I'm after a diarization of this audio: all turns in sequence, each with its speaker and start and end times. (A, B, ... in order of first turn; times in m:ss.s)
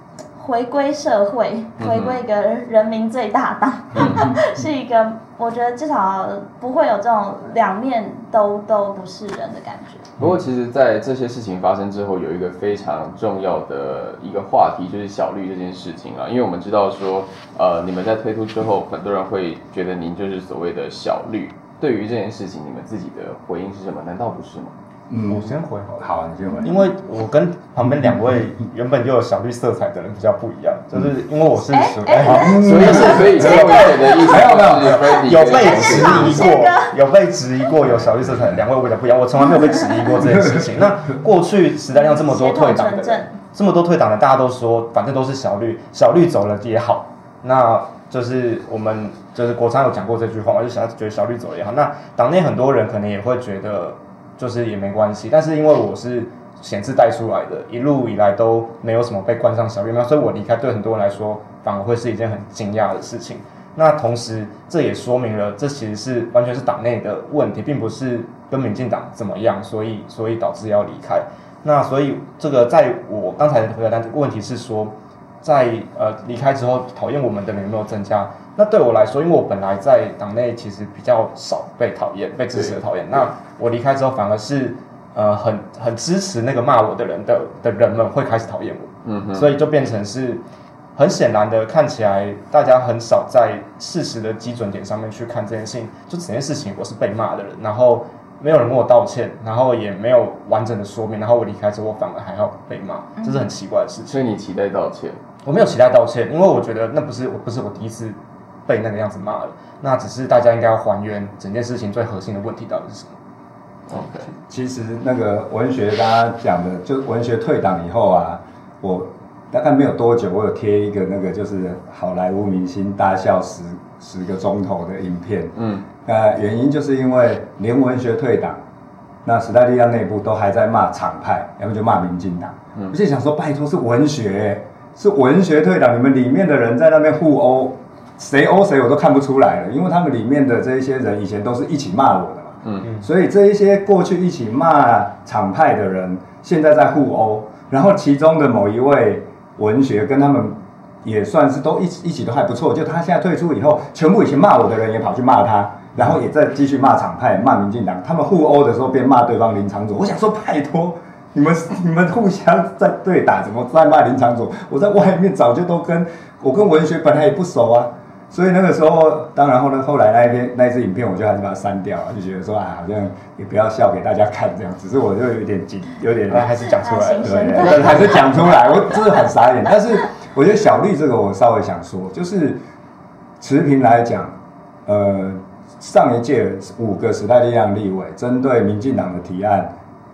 0:00.4-0:10.1 A
0:01.8-0:02.2 B
0:04.0-0:04.2 B
0:10.2-0:24.7 B
0:25.1-0:26.8 C
0:25.2-0:26.1 D
0:26.6-1:30.4 D
0:31.7-0:34.4 A
0:32.2-0:35.0 C
0:32.4-0:36.5 B
0:35.0-0:37.0 A
0:41.9-0:43.4 A
1:22.5-1:22.8 B
1:29.0-1:29.5 B
1:31.0-1:44.2 D
1:43.2-1:43.4 A
1:44.1-1:45.2 B
1:45.4-1:53.1 D
1:53.9-1:54.3 B
1:54.5-2:08.6 C
2:05.6-2:05.8 B
2:09.2-2:56.5 C
2:56.3-2:58.2 D
2:56.8-2:58.5 A
2:57.2-3:02.6 C
3:03.4-3:04.4 C
3:04.9-3:09.7 C